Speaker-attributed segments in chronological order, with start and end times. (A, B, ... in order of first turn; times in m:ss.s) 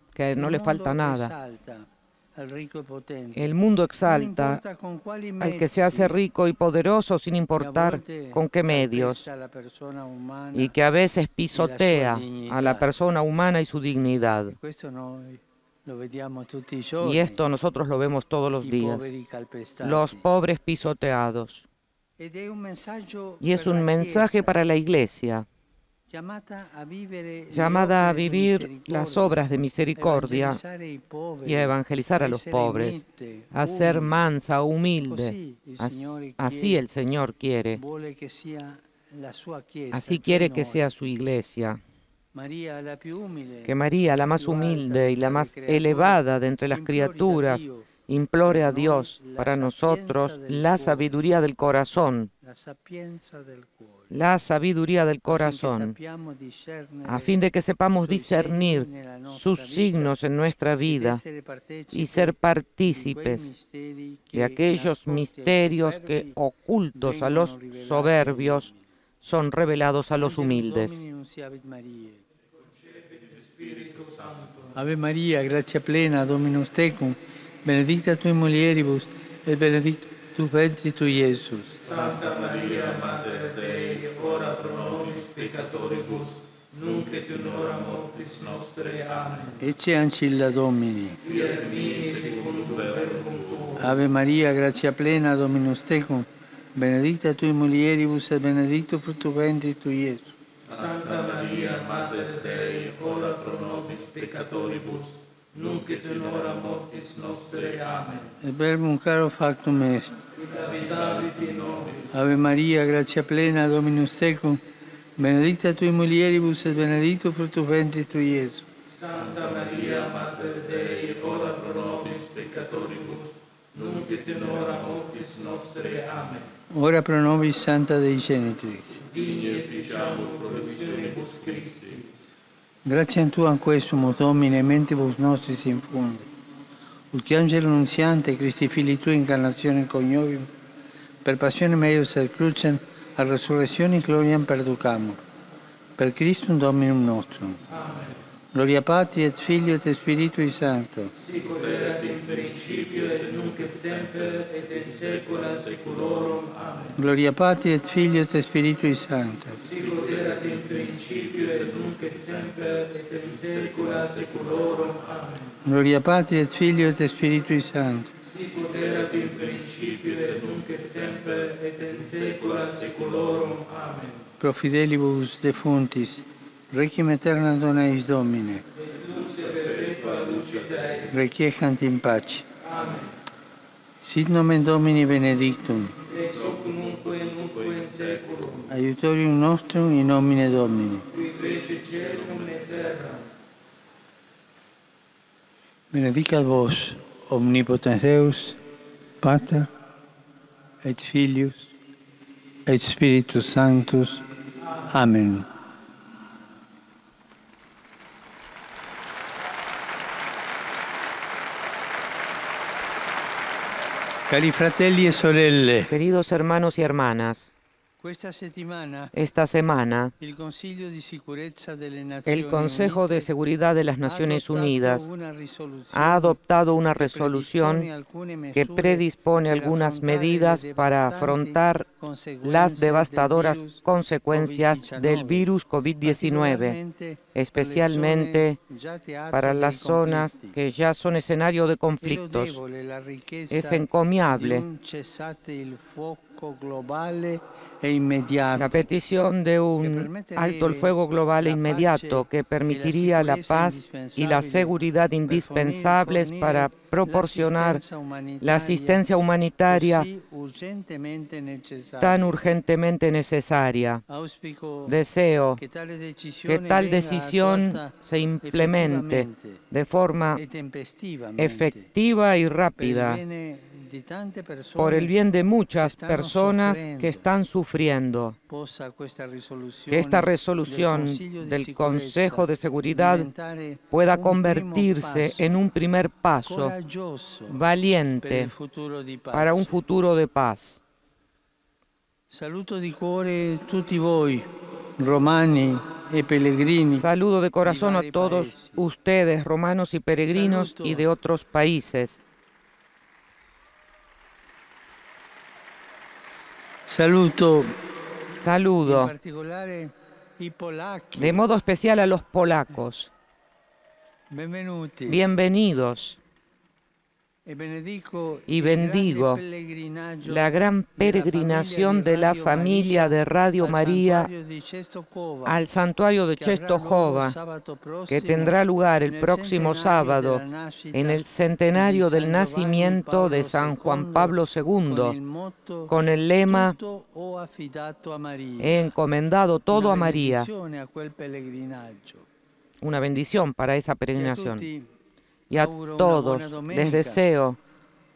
0:00.1-0:01.3 A
0:00.3-0:06.2 B
0:03.3-0:04.6 A
0:05.4-0:09.2 A
0:07.5-0:10.7 B
0:10.5-0:14.6 A
0:11.5-0:12.9 B
0:14.4-0:17.4 B
0:17.0-0:19.1 A
0:18.6-0:20.2 B
0:19.8-0:21.7 A
0:22.2-0:24.6 B
0:23.4-0:25.5 A
0:26.1-0:34.2 B
0:27.5-0:30.6 A
0:31.4-0:37.8 A
0:35.0-0:36.8 B
0:37.8-0:40.9 B
0:39.9-0:41.8 A
0:42.3-0:47.9 B
0:43.6-0:52.3 A
0:48.4-0:51.1 B
0:52.4-0:54.1 B
0:54.1-0:55.9 A
0:55.2-0:57.4 B
0:57.0-1:01.2 A
0:58.0-1:00.2 B
1:00.8-1:06.4 B
1:01.9-1:03.5 A
1:04.3-1:08.7 A
1:06.9-1:08.9 B
1:09.2-1:11.0 A
1:10.2-1:12.2 B
1:13.1-1:14.6 C
1:14.7-1:21.9 B
1:21.9-1:29.5 C
1:29.5-1:31.3 B
1:31.4-1:33.7 C
1:33.8-1:40.4 B
1:40.7-1:48.2 C
1:48.4-1:50.3 B
1:50.7-1:52.0 C
1:52.1-1:54.6 B
1:55.2-1:58.7 B
1:59.0-2:06.4 C
2:01.1-2:01.4 A
2:05.0-2:06.0 A
2:06.7-2:09.1 B
2:09.2-2:12.0 C
2:09.3-2:09.7 A
2:10.5-2:11.5 A
2:12.8-2:16.3 B
2:17.1-2:20.5 B
2:21.2-2:25.2 B
2:26.0-2:27.6 B
2:28.5-2:31.1 B
2:31.4-2:36.9 A
2:31.4-2:36.7 C
2:36.9-2:39.7 B
2:39.7-2:45.3 A
2:39.9-2:45.2 C
2:45.6-2:48.2 B
2:48.5-2:51.6 A
2:48.5-2:53.9 C
2:52.3-2:54.0 A
2:54.4-2:58.6 B
2:59.0-3:01.0 C
3:00.0-3:00.6 A
3:01.0-3:02.4 B
3:04.0-3:06.0 B
3:06.2-3:08.4 C
3:06.4-3:08.5 A
3:08.7-3:11.1 B
3:11.3-3:12.9 A
3:11.5-3:12.9 C
3:15.9-3:18.6 B
3:19.2-3:19.7 B
3:20.8-3:21.7 B
3:22.6-3:24.2 B
3:24.8-3:25.4 B
3:34.3-3:35.9 B
3:35.9-3:37.5 A
3:38.0-3:39.1 B
3:39.1-3:40.1 A
3:40.2-3:43.3 B
3:42.3-3:45.0 A
3:44.0-3:55.5 B
3:45.9-3:47.9 A
3:48.5-3:51.9 A
3:52.4-3:56.8 A
3:56.0-4:00.6 B
3:57.3-3:58.6 A
3:59.3-4:02.6 A
4:02.0-4:08.8 B
4:03.5-4:04.6 A
4:08.5-4:17.8 A
4:09.8-4:19.1 B
4:18.4-4:20.1 A
4:19.7-4:22.3 B
4:22.0-4:24.0 A
4:24.1-4:25.0 B
4:24.9-4:25.6 A
4:25.6-4:29.6 B
4:26.4-4:30.4 A
4:30.3-4:31.9 B
4:31.4-4:33.2 A
4:32.8-4:35.1 B
4:34.8-4:38.4 A
4:35.8-4:37.3 B
4:38.5-4:45.5 B
4:39.9-4:43.3 A
4:43.9-4:46.7 A
4:46.4-4:47.6 B
4:47.5-4:48.5 A
4:48.2-4:49.7 B
4:49.3-4:50.8 A
4:52.3-4:57.1 B
4:56.8-5:02.2 A
4:57.6-4:58.8 B
5:00.2-5:01.1 B
5:06.9-5:07.7 B
5:08.3-5:09.1 A
5:08.8-5:11.4 B
5:11.2-5:13.1 A
5:14.3-5:15.2 B
5:15.1-5:16.2 A
5:17.4-5:25.6 B
5:18.5-5:19.4 A
5:20.2-5:24.3 A
5:25.4-5:27.4 A
5:26.4-5:38.9 B
5:28.1-5:30.4 A
5:30.9-5:35.2 A
5:35.9-5:36.8 A
5:38.6-5:40.5 A
5:39.7-5:42.3 B
5:42.8-5:44.6 A
5:44.1-5:44.9 B
5:45.5-5:47.6 A
5:45.5-5:47.2 B